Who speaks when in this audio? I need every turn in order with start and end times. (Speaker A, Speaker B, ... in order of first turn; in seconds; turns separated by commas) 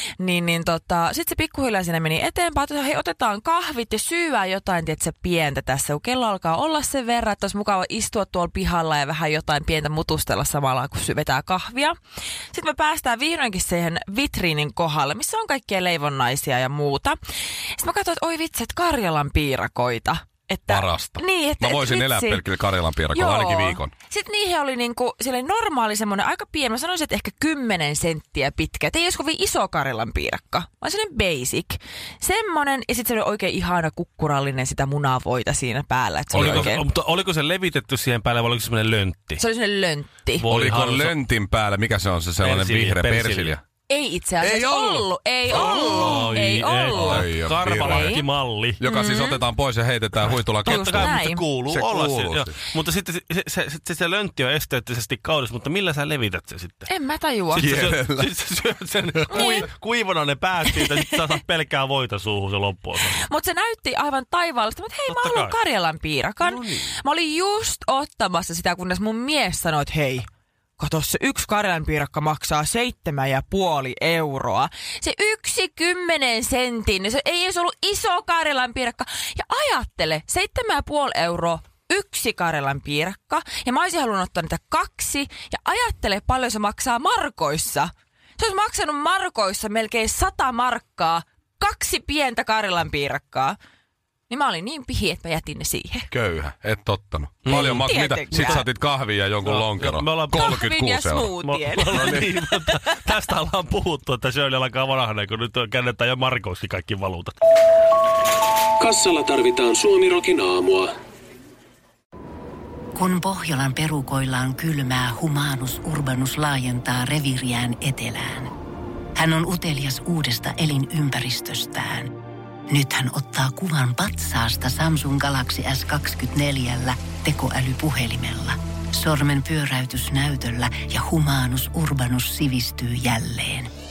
Speaker A: 0.2-11.9, Speaker A: 12.5-17.2, Speaker A: 17.8-22.4, Speaker B: 20.7-23.9, Speaker A: 23.1-36.9, Speaker B: 36.3-36.8, Speaker C: 36.3-39.4, Speaker A: 39.4-40.5, Speaker C: 40.4-41.2, Speaker B: 40.5-43.6, Speaker C: 42.4-43.6, Speaker A: 43.9-47.3, Speaker B: 44.4-46.3, Speaker C: 45.5-48.8, Speaker B: 46.9-48.2, Speaker A: 47.8-48.2, Speaker B: 48.8-51.1, Speaker A: 48.9-49.4, Speaker C: 50.6-56.9, Speaker A: 50.6-51.4, Speaker B: 51.7-52.6, Speaker A: 56.9-57.7, Speaker C: 57.5-63.2, Speaker B: 57.5-58.3, Speaker B: 59.2-59.6, Speaker A: 59.3-59.7, Speaker A: 60.7-61.2, Speaker A: 63.2-93.6, Speaker C: 65.1-65.5, Speaker C: 66.4-66.9, Speaker A: 94.3-96.1, Speaker B: 96.1-102.3, Speaker C: 97.4-98.7, Speaker A: 97.5-98.7, Speaker C: 99.4-100.6, Speaker A: 100.3-102.3, Speaker C: 101.4-107.3, Speaker D: 108.8-110.9, Speaker E: 113.0-118.5, Speaker E: 119.2-122.2, Speaker E: 122.7-133.7